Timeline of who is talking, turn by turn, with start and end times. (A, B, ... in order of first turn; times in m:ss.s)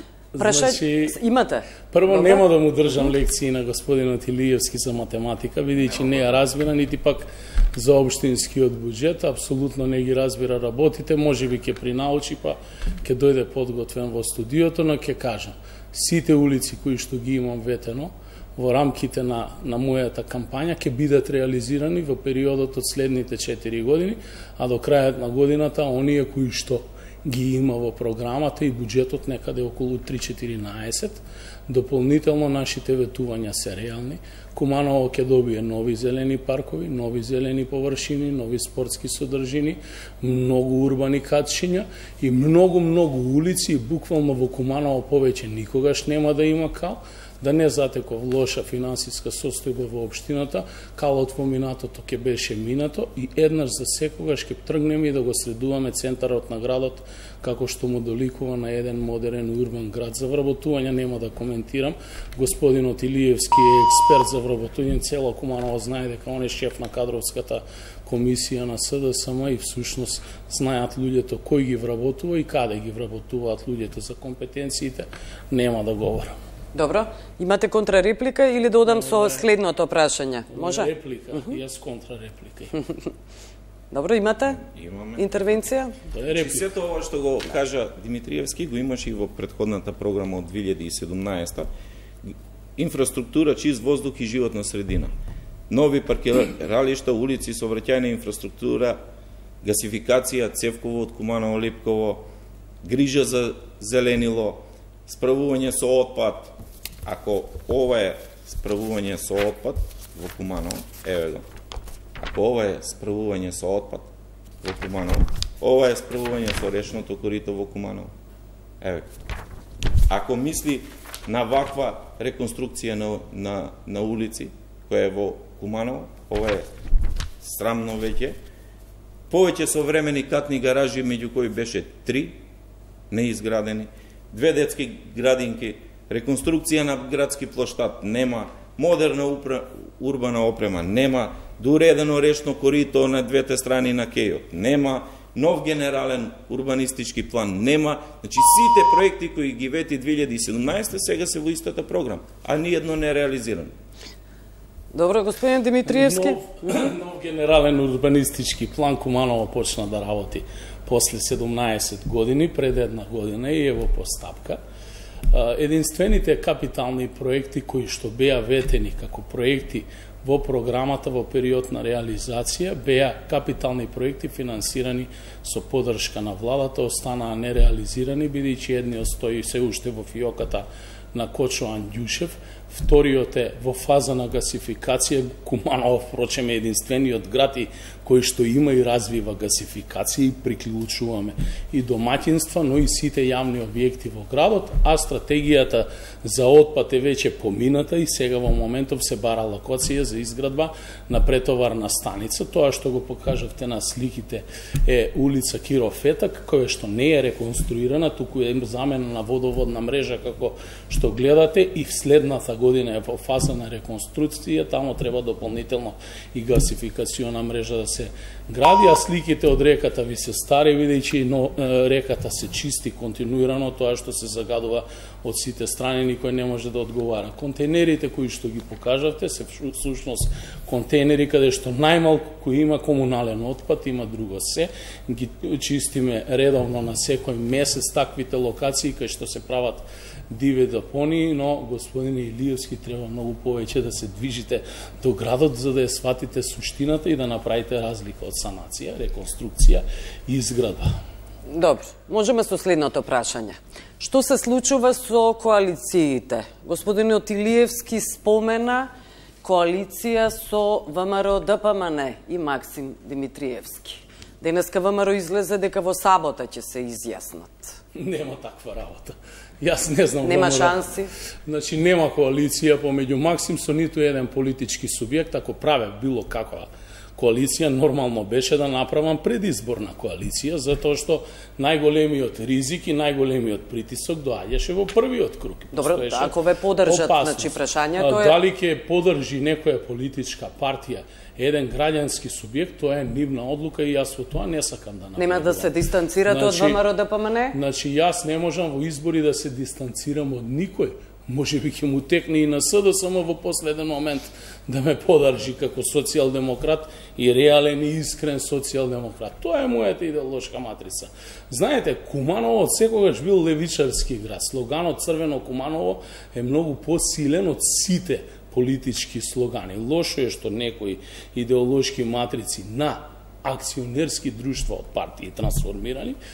0:00.3-0:01.2 A
0:00.4-0:02.4 B
0:01.9-1:16.4 A
1:16.7-1:21.5 B
1:18.8-1:19.5 A
1:20.5-1:22.8 A
1:23.9-1:24.6 B
1:24.5-1:25.3 C
1:25.2-1:26.0 B
1:26.1-1:26.6 A
1:26.3-1:31.7 C
1:32.2-1:35.1 C
1:35.7-1:39.0 C
1:39.6-1:42.3 C
1:42.8-1:46.5 C
1:47.0-1:51.4 C
1:52.2-1:54.1 C
1:54.6-1:58.1 C
1:58.8-1:59.1 C
2:00.1-2:06.6 C
2:07.4-2:08.4 C
2:09.3-2:12.4 C
2:13.1-2:33.7 C
2:34.9-2:36.4 B
2:35.8-2:44.6 A
2:45.3-4:10.9 A
4:11.5-4:18.9 B
4:19.4-4:27.8 B
4:28.0-4:30.8 A
4:30.2-4:31.1 B
4:31.4-4:46.3 A
4:45.7-4:48.4 B
4:46.8-4:55.7 A
4:55.2-4:57.5 B
4:56.3-4:56.8 A
4:57.5-5:26.2 A